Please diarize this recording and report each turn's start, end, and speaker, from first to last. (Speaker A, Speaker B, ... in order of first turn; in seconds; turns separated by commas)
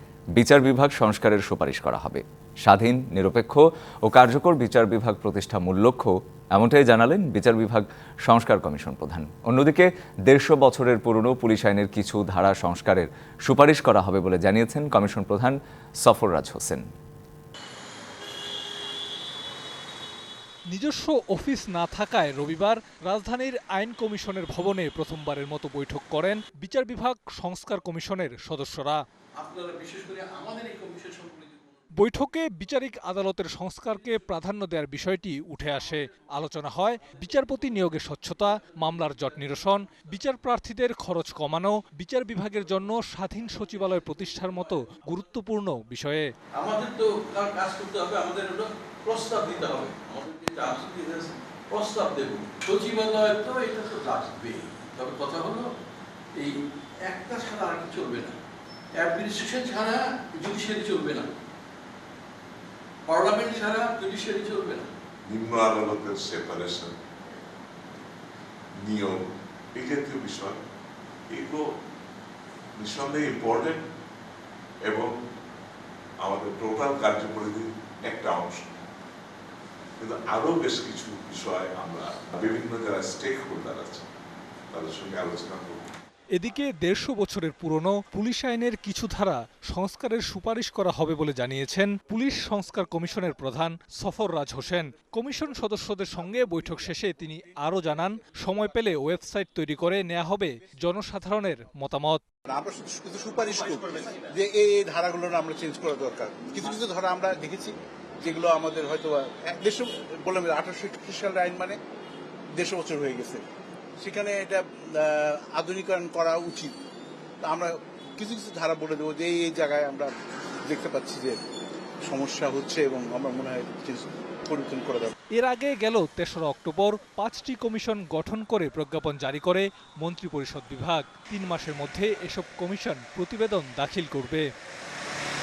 Speaker A: 0.3-16.8, Speaker B: 20.7-29.0, Speaker C: 29.4-31.8, Speaker B: 31.9-46.3, Speaker C: 46.6-55.6, Speaker C: 56.4-58.4, Speaker C: 59.0-61.3, Speaker C: 63.1-64.9, Speaker D: 65.3-66.9, Speaker D: 68.8-69.2, Speaker D: 69.8-70.6, Speaker D: 71.3-71.6, Speaker D: 72.8-73.8, Speaker D: 76.2-78.8, Speaker D: 80.0-84.0, Speaker D: 84.7-85.8, Speaker B: 86.3-102.2, Speaker E: 102.5-111.8, Speaker E: 112.6-113.4, Speaker E: 114.0-116.7, Speaker E: 117.4-120.1, Speaker E: 120.7-121.4, Speaker E: 122.1-125.1, Speaker B: 125.3-134.5